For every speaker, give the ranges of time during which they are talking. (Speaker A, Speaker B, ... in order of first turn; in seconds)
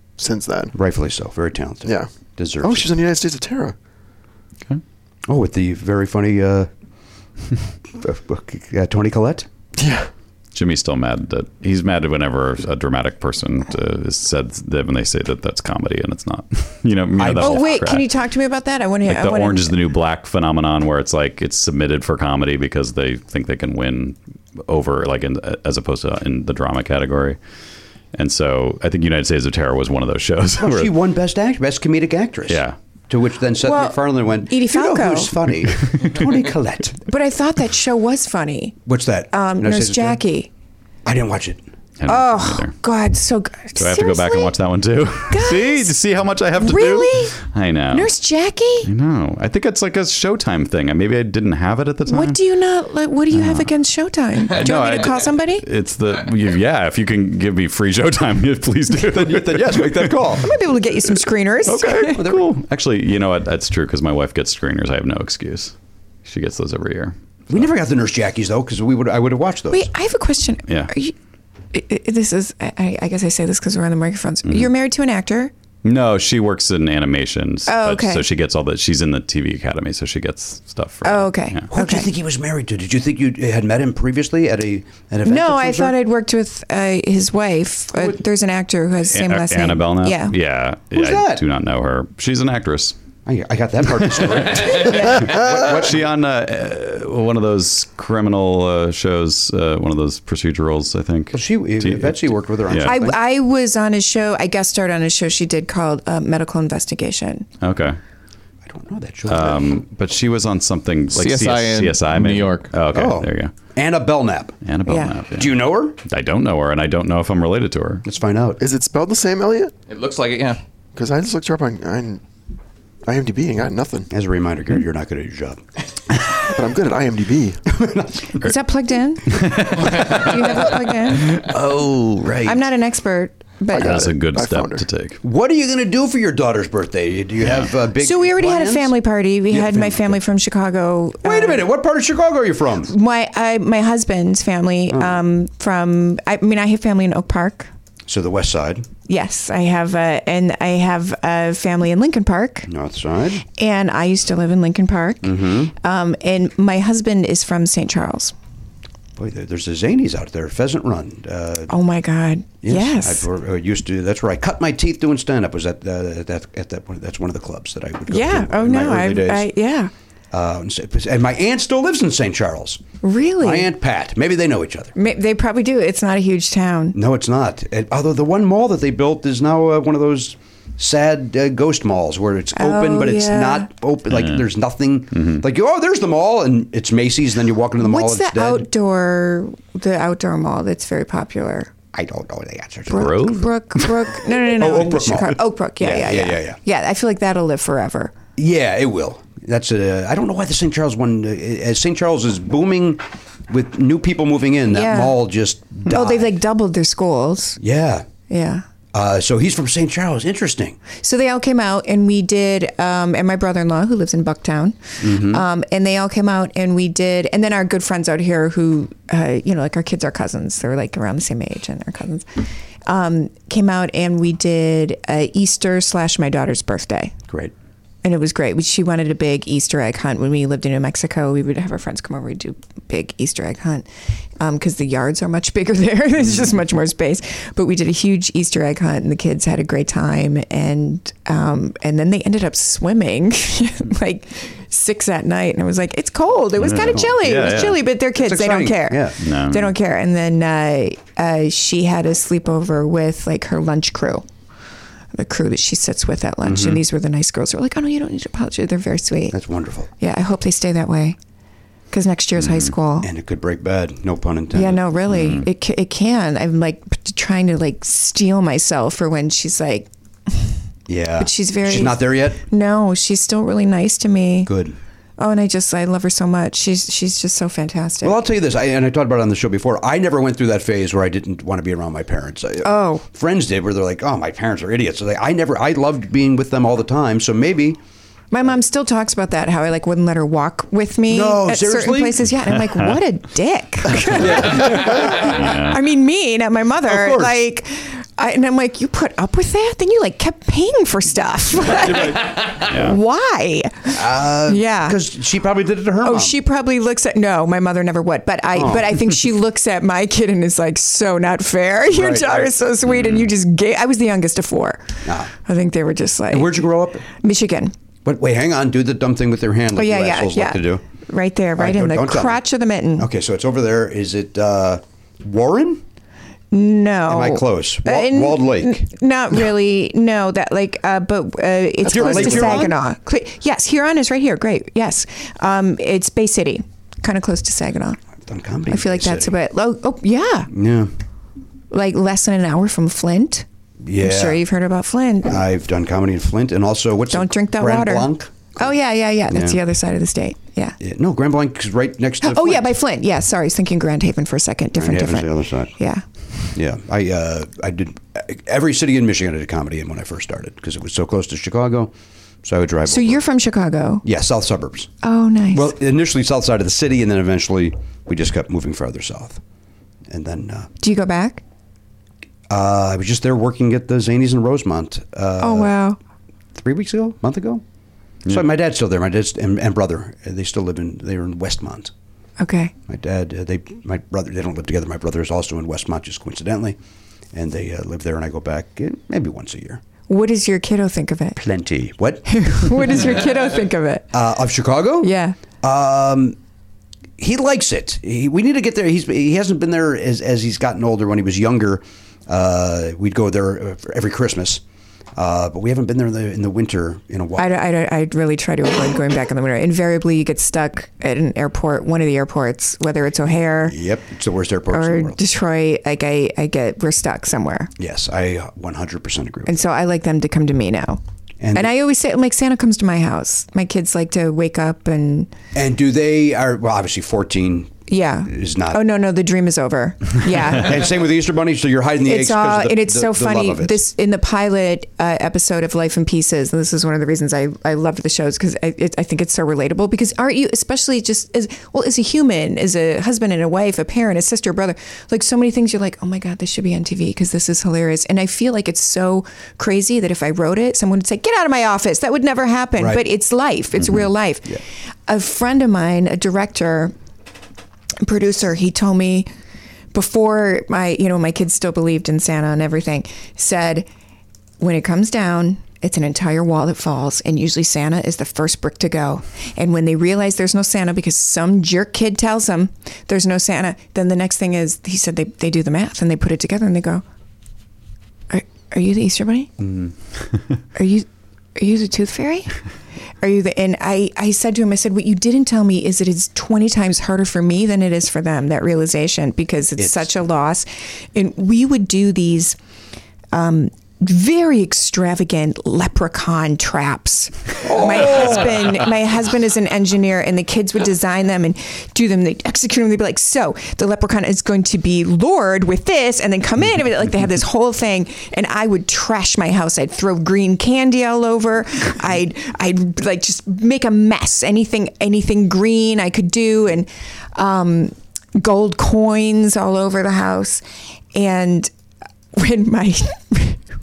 Speaker A: 0.2-0.7, 2.6-3.8, 9.8-10.1, 118.6-119.7, 121.0-122.2, 123.0-124.1, 126.5-127.6, 133.7-134.9, 331.8-332.7
Speaker B: 0.7-2.9, 5.3-6.7, 7.9-9.5, 17.2-17.6, 30.6-37.0, 38.9-40.2, 41.0-41.6, 59.0-60.5, 62.1-62.4, 67.5-69.9, 81.7-86.0, 90.9-91.4, 93.3-96.0, 101.3-103.2, 108.6-109.8, 112.9-114.6, 115.3-116.0, 118.0-118.6, 124.1-125.6, 127.7-128.5, 135.2-138.9, 139.5-140.2, 141.2-142.9, 144.9-145.2, 148.1-148.9, 152.7-153.4, 155.2-155.7, 159.2-161.7, 162.6-169.5, 170.3-174.9, 176.9-188.7, 191.9-193.2, 194.5-196.6, 198.4-206.3, 207.6-208.1, 208.9-210.8, 215.0-215.4, 246.7-249.2, 256.4-256.8, 259.3-259.9, 263.0-264.9, 270.9-272.4, 274.5-274.8, 278.0-287.8, 291.1-292.2, 294.1-295.3, 296.9-297.4, 301.8-302.3, 303.9-306.4, 308.5-309.0, 311.9-312.5, 315.1-315.3, 316.3-317.0, 318.1-320.8, 321.6-322.4, 323.0-325.8, 327.1-328.9, 331.9-332.8, 338.3-339.4, 340.5-340.9, 343.9-344.4, 345.3-348.8, 349.3-349.6, 350.8-352.7, 354.8-355.7, 356.5-361.9, 362.4-363.2, 364.0-364.9, 365.5-369.4, 370.1-370.7, 372.5-375.7, 376.6-377.6, 378.3-381.9, 382.9-386.8, 387.3-389.8, 391.4-393.1, 394.1-396.4, 397.2-404.6, 405.2-407.5, 413.6-415.2, 417.8-419.6, 421.4-421.7, 425.6-428.8, 430.3-433.8, 452.8-453.0, 489.8-490.1, 497.6-498.8
Speaker C: 10.6-18.1, 19.1-27.4, 28.1-30.9, 32.5-32.8, 42.0-42.8, 43.8-48.1, 48.8-52.4, 53.3-53.7, 54.5-60.1, 61.6-65.7, 66.2-67.7, 70.7-70.9, 75.8-81.6, 89.1-93.0, 94.9-103.0, 107.6-108.0, 109.3-113.5, 114.7-118.0, 129.3-130.3, 131.1-132.6, 133.7-135.2, 184.1-184.4, 185.1-185.4, 192.9-193.9, 246.6-247.8, 249.2-249.7, 262.4-262.7, 265.1-265.5, 292.5-292.9, 294.1-295.8, 302.6-303.0, 312.9-313.3
Speaker D: 17.4-19.8, 33.6-35.4, 37.1-38.8, 39.3-40.5, 42.1-44.5, 45.3-45.9, 46.6-47.4, 47.9-48.9, 52.1-55.7, 60.4-62.3, 69.7-71.1, 71.7-75.5, 77.7-78.3, 81.0-82.1, 85.2-90.4, 94.8-95.3, 102.8-107.5, 114.9-115.2, 128.4-131.4, 132.4-134.1, 138.0-141.7, 142.9-147.7, 149.1-152.7, 153.6-158.3, 161.7-163.2, 168.1-169.9, 173.0-173.7, 175.0-177.0, 182.6-183.7, 187.8-191.8, 192.9-198.2, 204.7-205.2, 205.9-207.6, 208.3-208.6, 210.9-222.2, 222.9-227.2, 228.0-233.9, 234.4-254.2, 255.1-259.4, 260.0-261.2, 261.9-263.1, 264.5-270.5, 271.2-274.5, 275.2-278.2, 282.6-283.0, 288.3-305.0, 306.0-314.8, 315.4-317.7, 319.8-323.1, 326.5-338.0, 338.7-340.5, 341.7-343.4, 344.0-345.4, 347.1-350.8, 352.2-356.0, 362.9-364.1, 365.0-365.7, 370.8-371.4, 375.4-376.0, 382.4-382.7, 390.1-391.4, 392.3-394.1, 395.0-395.4, 407.4-413.8, 414.7-417.7, 419.5-421.0, 421.5-425.3, 427.9-430.9, 432.0-456.9, 458.0-459.3, 459.9-463.9, 464.6-477.0, 478.3-479.5, 480.8-481.1, 481.6-482.6, 483.2-492.6, 493.3-520.6, 521.1-521.7, 522.4-523.6
Speaker E: 111.1-112.7, 119.9-120.6